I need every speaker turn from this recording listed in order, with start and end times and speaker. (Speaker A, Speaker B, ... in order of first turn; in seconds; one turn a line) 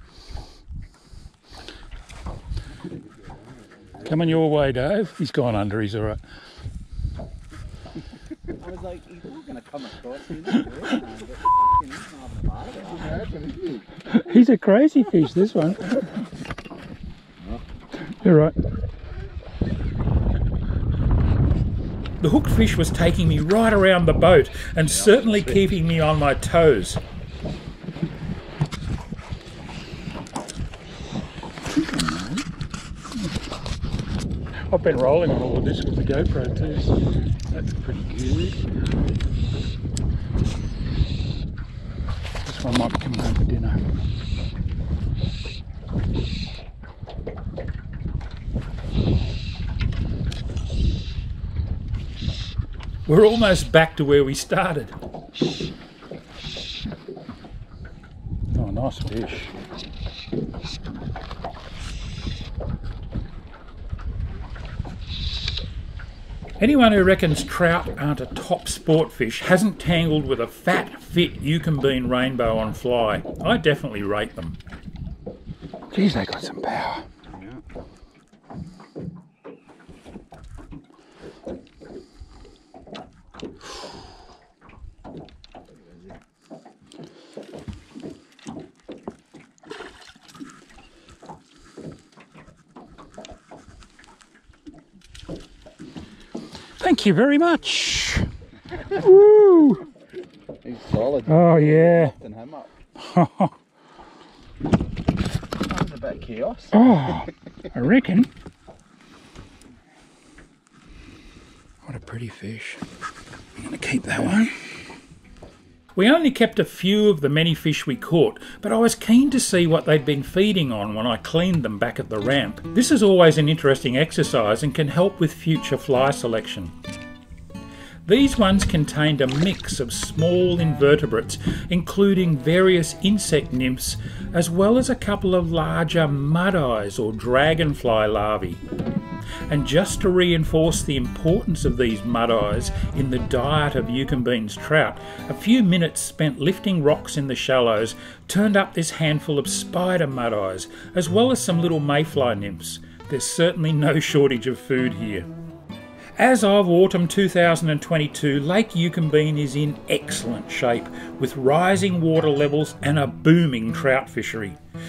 Speaker A: 4.0-6.2
Speaker B: 8.5-13.7
Speaker A: 14.1-16.1
Speaker A: 18.0-18.6
Speaker A: 22.2-27.0
Speaker A: 31.6-32.5
Speaker A: 34.7-36.9
Speaker A: 37.5-38.7
Speaker A: 42.4-43.8
Speaker A: 53.0-54.9
Speaker A: 58.5-59.5
Speaker A: 66.6-74.6
Speaker A: 75.9-77.0
Speaker A: 96.8-98.3
Speaker A: 98.8-99.9
Speaker B: 100.6-102.7
Speaker A: 101.2-102.2
Speaker A: 103.0-103.5
Speaker B: 105.6-106.8
Speaker A: 106.7-108.3
Speaker A: 111.8-112.8
Speaker A: 113.6-114.7
Speaker A: 115.9-126.7
Speaker A: 128.1-138.6
Speaker A: 139.5-155.3
Speaker A: 156.2-164.6